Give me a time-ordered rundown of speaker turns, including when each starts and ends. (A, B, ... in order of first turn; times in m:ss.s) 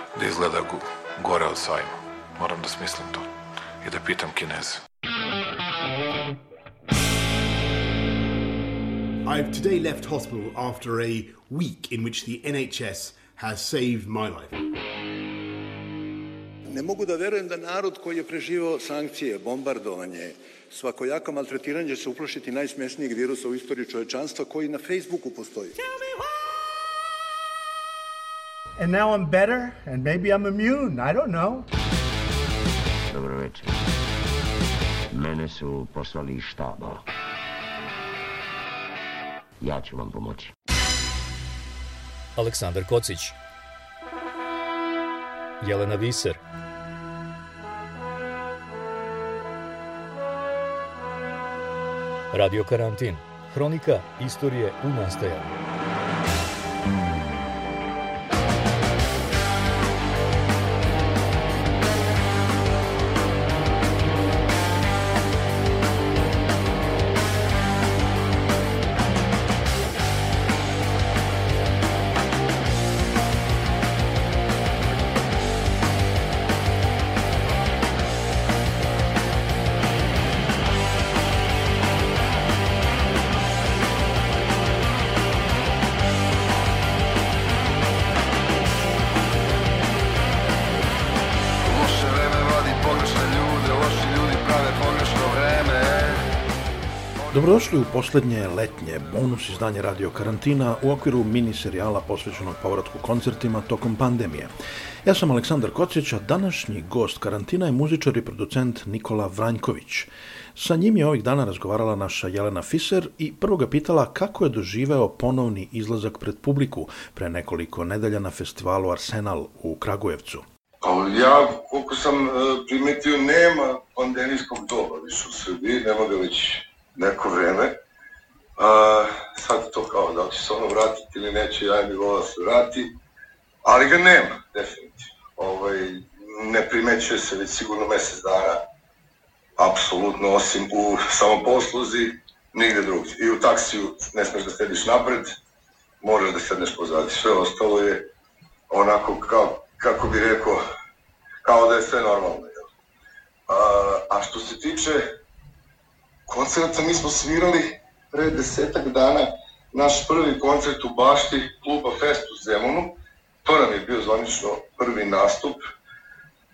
0:00.2-0:03.3 A
0:03.8-0:04.8 A
0:09.2-0:14.6 B
0:16.7-0:25.8 C
0:28.8-0:31.7 D
0:33.1-0:33.8 E
0:35.1-0:37.0 E
0:39.6-0:40.5 E
0:42.4-0:43.4 F
0:45.6-0:46.4 F
0:52.3-0:55.6 F
1:31.7-1:36.3 G
1:37.3-1:44.5 H
1:45.0-2:00.4 H
2:00.8-2:07.8 G
2:08.6-2:12.9 G
2:13.6-2:18.6 G
2:19.6-2:25.3 G
2:26.0-2:28.0 G
2:28.7-2:30.6 G
2:31.4-2:32.7 G
2:33.5-2:35.1 G
2:36.3-2:42.9 G
2:43.4-2:45.6 G